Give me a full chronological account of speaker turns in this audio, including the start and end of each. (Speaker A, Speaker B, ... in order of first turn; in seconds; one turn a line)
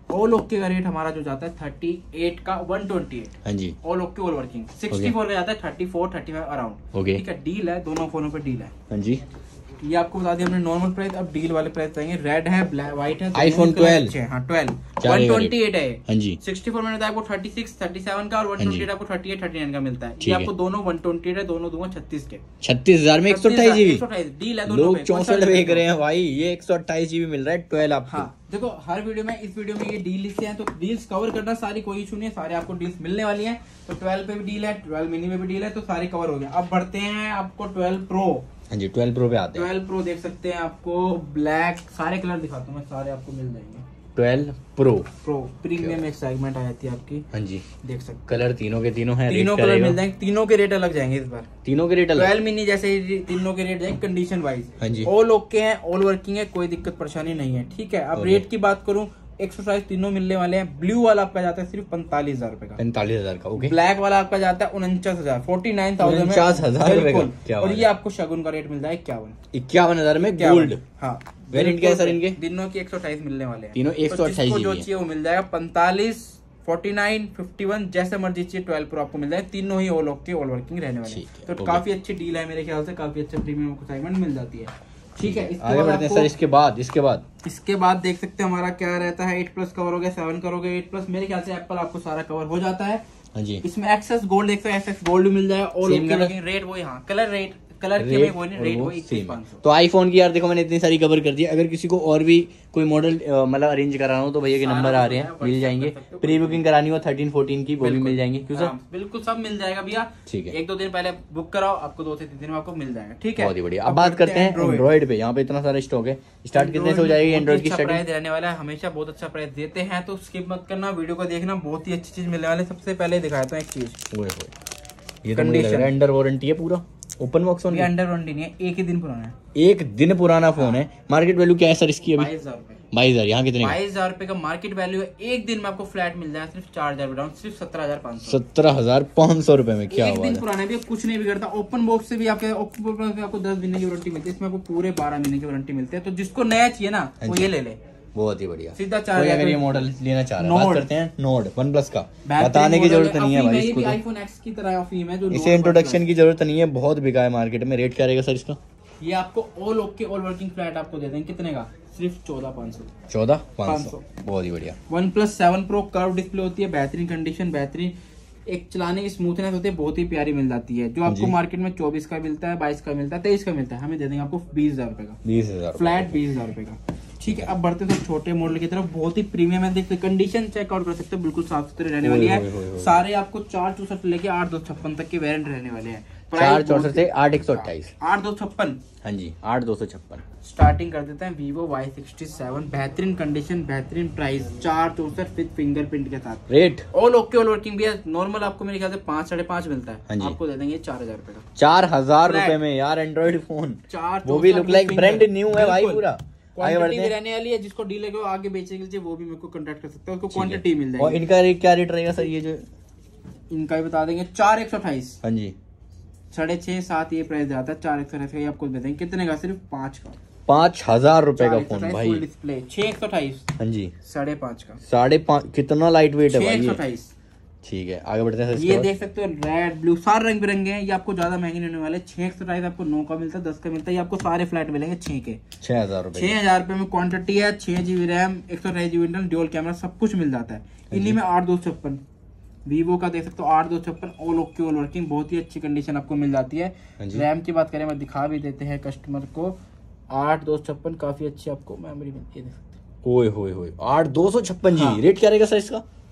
Speaker A: 0.1-8.7
Speaker B: 3.4-3.8
Speaker B: 6.9-7.2
Speaker B: 8.9-9.2
Speaker A: 9.8-22.4
Speaker B: 13.3-14.1
Speaker B: 15.0-16.4
Speaker B: 18.6-18.9
Speaker B: 20.2-20.5
Speaker B: 22.6-24.0
Speaker A: 23.3-25.9
Speaker B: 24.7-28.3
Speaker A: 28.1-38.5
Speaker B: 38.7-39.7
Speaker A: 39.5-43.8
Speaker B: 44.1-45.1
Speaker A: 45.2-47.2
Speaker B: 45.8-46.0
Speaker B: 47.3-47.6
Speaker A: 47.8-48.2
Speaker B: 48.3-50.0
Speaker A: 49.3-51.5
Speaker B: 51.6-52.3
Speaker A: 52.1-62.8
Speaker B: 54.8-55.1
Speaker B: 58.1-58.4
Speaker B: 62.8-63.7
Speaker A: 63.6-69.3
Speaker B: 66.0-67.9
Speaker B: 69.5-70.8
Speaker A: 70.2-86.3
Speaker B: 71.5-72.4
Speaker B: 73.7-74.8
Speaker B: 81.1-81.8
Speaker B: 85.2-87.2
Speaker A: 87.4-93.0
Speaker B: 93.3-93.6
Speaker A: 93.6-99.6
Speaker B: 95.8-96.3
Speaker B: 98.0-108.7
Speaker A: 104.6-106.6
Speaker A: 107.8-114.9
Speaker B: 110.3-110.5
Speaker B: 113.3-118.0
Speaker A: 116.5-124.0
Speaker B: 124.1-124.5
Speaker B: 125.2-127.9
Speaker A: 125.3-125.9
Speaker A: 127.7-129.3
Speaker B: 129.5-132.3
Speaker A: 132.1-132.8
Speaker B: 132.9-133.8
Speaker A: 133.6-138.4
Speaker B: 138.3-140.4
Speaker A: 139.9-147.8
Speaker B: 147.2-147.5
Speaker B: 148.1-154.0
Speaker A: 148.8-149.8
Speaker A: 150.4-150.9
Speaker A: 152.2-156.1
Speaker B: 155.3-158.6
Speaker A: 159.0-162.9
Speaker B: 163.1-164.8
Speaker A: 163.7-164.0
Speaker A: 164.9-167.9
Speaker A: 168.5-175.2
Speaker B: 171.1-171.3
Speaker B: 175.2-176.2
Speaker A: 175.7-188.8
Speaker B: 177.2-177.5
Speaker B: 182.0-183.0
Speaker B: 186.3-187.9
Speaker B: 189.0-190.2
Speaker A: 190.4-201.4
Speaker B: 196.5-196.8
Speaker B: 200.1-200.4
Speaker B: 201.6-207.1
Speaker A: 202.2-202.6
Speaker A: 203.9-211.2
Speaker B: 210.3-212.6
Speaker A: 213.5-215.2
Speaker B: 215.2-215.5
Speaker A: 216.3-220.2
Speaker B: 220.5-222.2
Speaker A: 221.3-223.4
Speaker B: 223.6-223.9
Speaker A: 224.0-224.8
Speaker B: 224.8-226.8
Speaker A: 226.3-227.1
Speaker B: 227.6-228.9
Speaker A: 228.5-235.4
Speaker B: 235.6-236.3
Speaker A: 236.1-242.0
Speaker B: 240.9-241.2
Speaker A: 242.7-249.6
Speaker B: 247.0-247.2
Speaker A: 250.1-252.8
Speaker B: 253.0-255.8
Speaker A: 254.7-255.0